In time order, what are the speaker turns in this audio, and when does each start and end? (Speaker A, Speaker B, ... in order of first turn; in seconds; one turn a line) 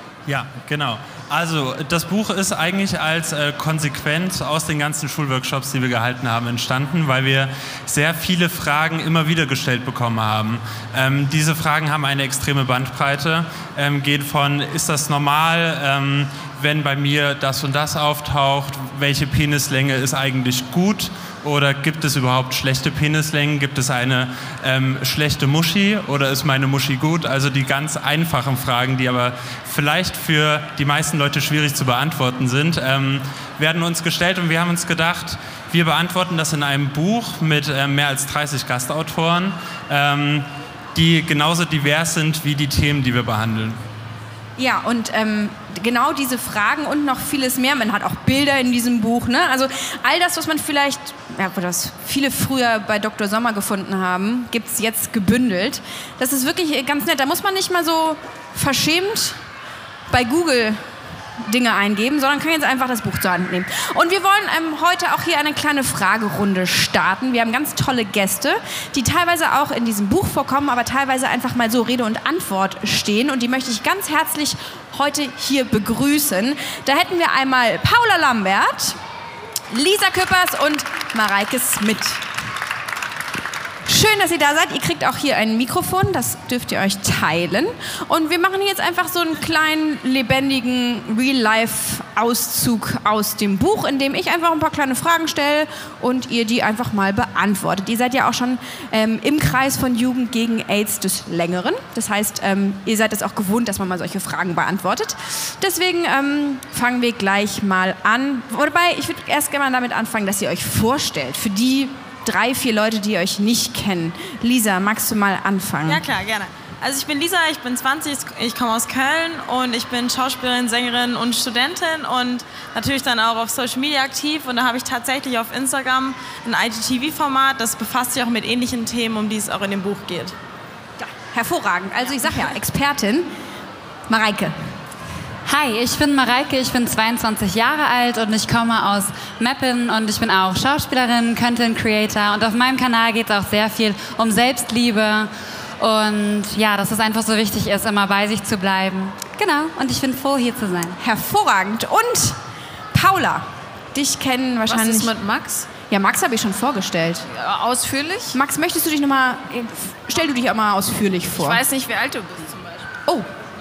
Speaker A: 0.3-43.8
Speaker B: 44.6-59.4
Speaker B: 60.1-60.8
Speaker B: 61.5-79.0
Speaker B: 79.7-82.2
Speaker B: 83.9-116.0
Speaker C: 115.9-130.3
Speaker B: 131.0-133.3
Speaker B: 134.1-134.5
Speaker D: 135.5-151.0
Speaker B: 151.0-152.4
Speaker B: 152.9-155.1
Speaker E: 154.7-155.7
Speaker B: 155.9-157.3
Speaker E: 157.3-158.4
Speaker B: 158.3-161.6
Speaker E: 161.3-162.8